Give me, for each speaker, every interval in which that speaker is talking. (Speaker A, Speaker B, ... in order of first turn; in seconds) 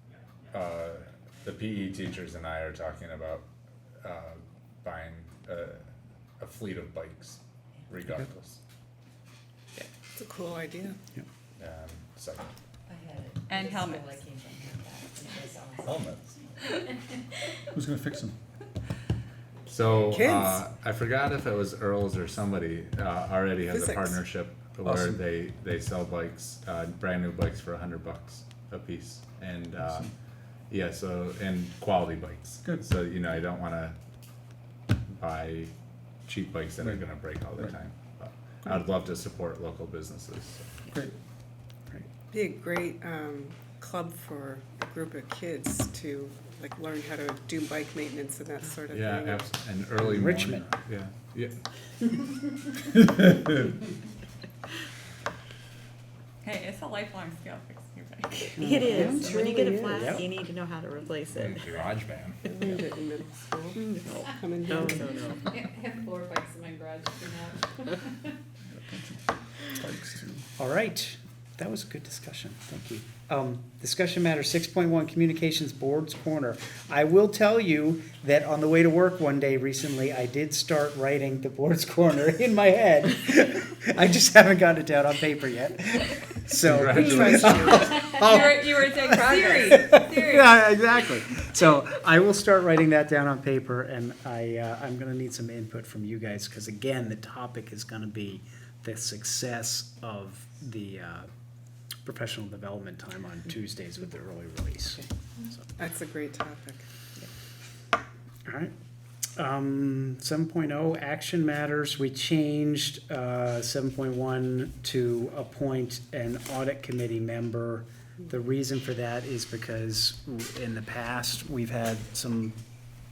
Speaker A: 0.5-3.5, 4.0-5.8, 6.4-8.6, 11.6-12.6, 15.7-16.4, 19.7-30.1, 30.7-34.0, 35.1-35.7, 36.3-40.7, 48.9-51.5, 61.3-62.4, 86.7-87.7
Speaker B: 10.2-11.0, 20.1-20.6, 23.7-24.2, 42.3-49.5, 59.1-60.2, 62.5-65.4, 86.9-87.9, 105.8-106.8
Speaker C: 12.9-16.0, 58.6-60.6, 63.8-64.4, 65.5-66.6, 67.1-67.5
Speaker D: 13.5-14.2, 56.4-58.8, 65.5-67.5, 88.2-90.5
Speaker E: 17.7-18.4, 24.9-25.2, 29.8-30.1, 68.7-70.5
Speaker F: 50.0-50.6, 58.6-59.3, 59.8-60.3, 70.6-101.3, 102.0-105.7, 108.5-108.7, 109.4-122.6
Speaker G: 58.9-61.6, 64.7-65.3